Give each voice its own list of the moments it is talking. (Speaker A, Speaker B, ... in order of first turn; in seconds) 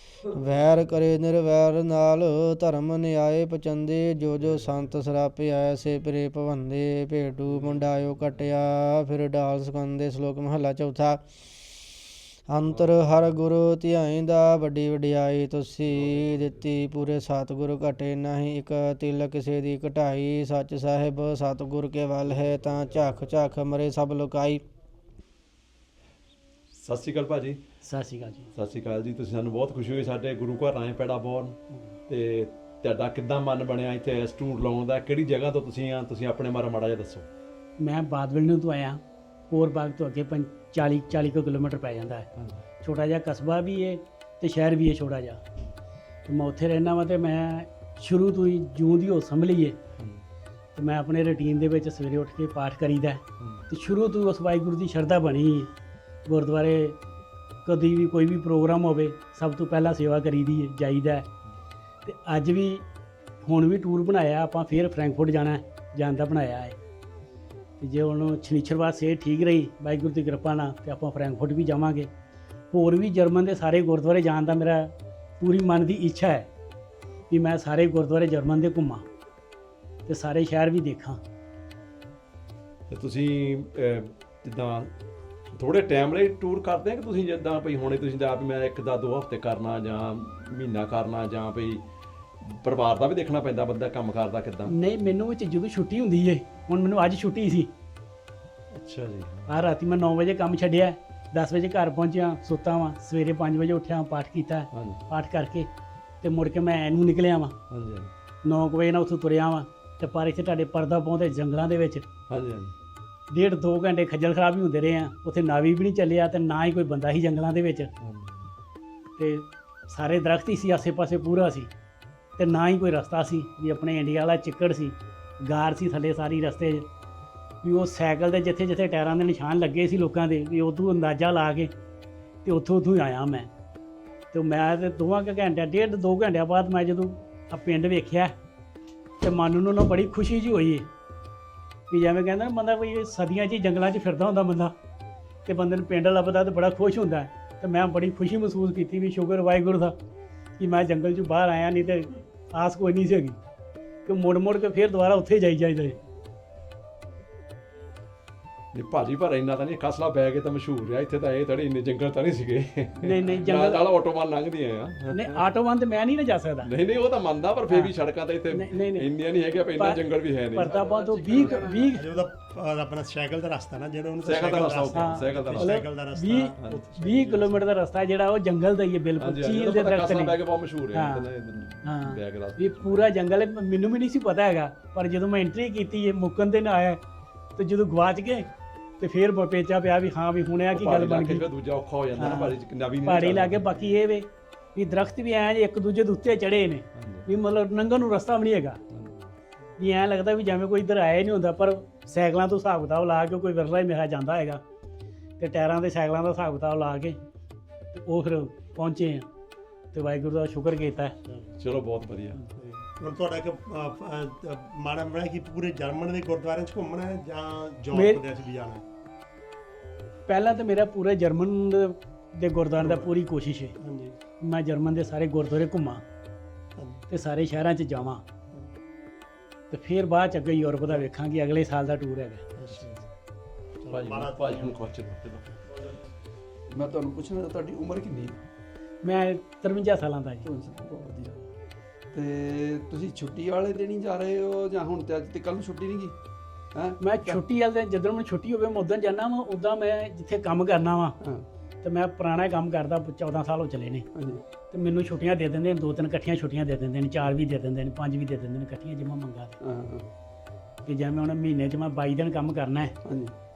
Speaker A: 0.3-11.2, 12.5-24.6
Speaker B: 26.8-27.6, 28.5-31.6, 32.1-37.3, 50.0-50.2, 53.4-53.6, 82.9-84.9, 85.5-91.8, 92.4-94.7, 98.7-99.5, 104.7-105.0, 107.7-108.1, 112.3-112.7, 118.0-118.5, 158.7-165.4, 166.6-171.8, 174.2-175.8, 176.6-176.8, 179.2-183.1, 190.7-194.0, 196.9-197.3, 198.9-199.3, 211.6-212.4, 233.9-235.5
Speaker C: 27.8-28.5, 37.8-42.3, 42.8-45.4, 46.2-49.8, 50.7-55.7, 56.2-57.0, 57.6-61.3, 62.0-62.9, 63.4-66.8, 67.8-72.1, 72.7-76.5, 77.3-79.0, 80.0-81.2, 94.7-97.7, 99.5-105.7, 106.2-107.5, 108.4-112.0, 113.3-117.9, 119.2-121.7, 122.4-126.8, 127.6-131.7, 132.4-133.5, 134.3-138.3, 139.2-140.9, 141.9-144.7, 145.4-149.9, 150.6-153.4, 154.1-156.0, 163.0-163.8, 165.1-166.7, 168.5-169.1, 169.7-170.0, 170.5-172.1, 174.9-180.4, 180.9-181.3, 181.8-187.0, 187.6-188.5, 189.0-191.5, 192.2-198.8, 199.8-204.6, 205.4-207.2, 207.9-209.3, 209.9-211.2, 217.9-218.2, 220.2-223.7, 224.4-226.0, 227.1-228.2, 229.7-232.4, 239.0-240.4, 247.0-251.2, 251.8-254.1, 254.7-259.6, 260.8-262.9
Speaker D: 171.4-171.8, 236.7-238.4, 240.4-241.5, 242.1-246.2, 246.7-247.4, 251.2-251.5, 254.1-254.4, 259.6-260.1, 263.0-263.4
Speaker E: 171.9-177.6, 212.5-218.8, 222.8-223.1, 223.8-224.2, 226.8-227.0, 232.6-233.1, 233.8-234.8, 235.6-236.0